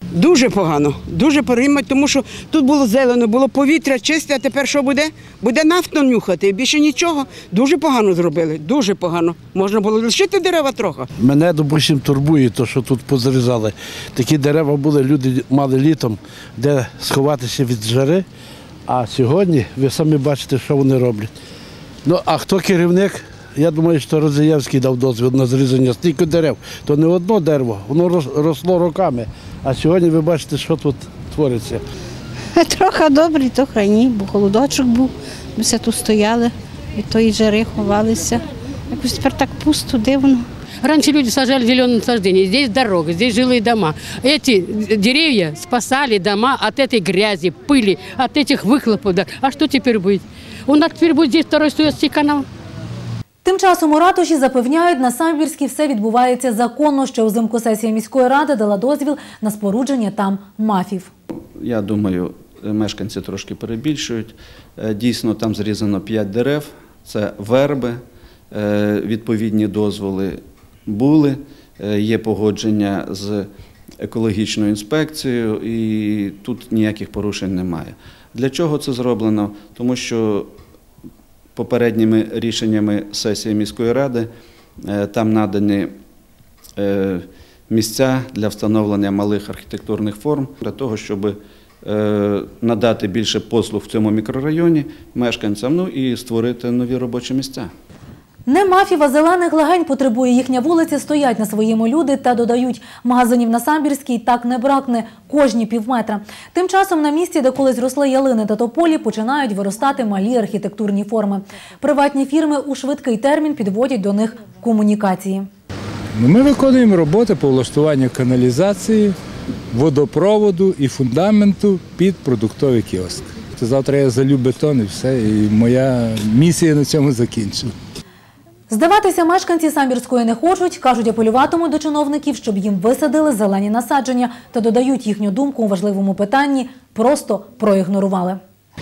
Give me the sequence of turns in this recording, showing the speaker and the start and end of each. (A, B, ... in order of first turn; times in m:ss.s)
0:00.1-0:11.1 A
0:11.2-0:18.2 B
0:18.9-0:21.3 B
0:22.0-0:31.8 B
0:32.6-0:40.5 C
0:40.8-0:52.5 D
0:53.4-1:01.1 E
1:01.6-1:08.0 F
1:08.5-1:13.5 F
1:14.0-1:20.5 F
1:21.6-1:24.3 F
1:24.8-1:25.9 F
1:26.8-1:37.7 F
1:38.5-1:55.5 E
1:56.2-1:59.2 G
1:59.7-2:07.7 G
2:08.7-2:18.4 E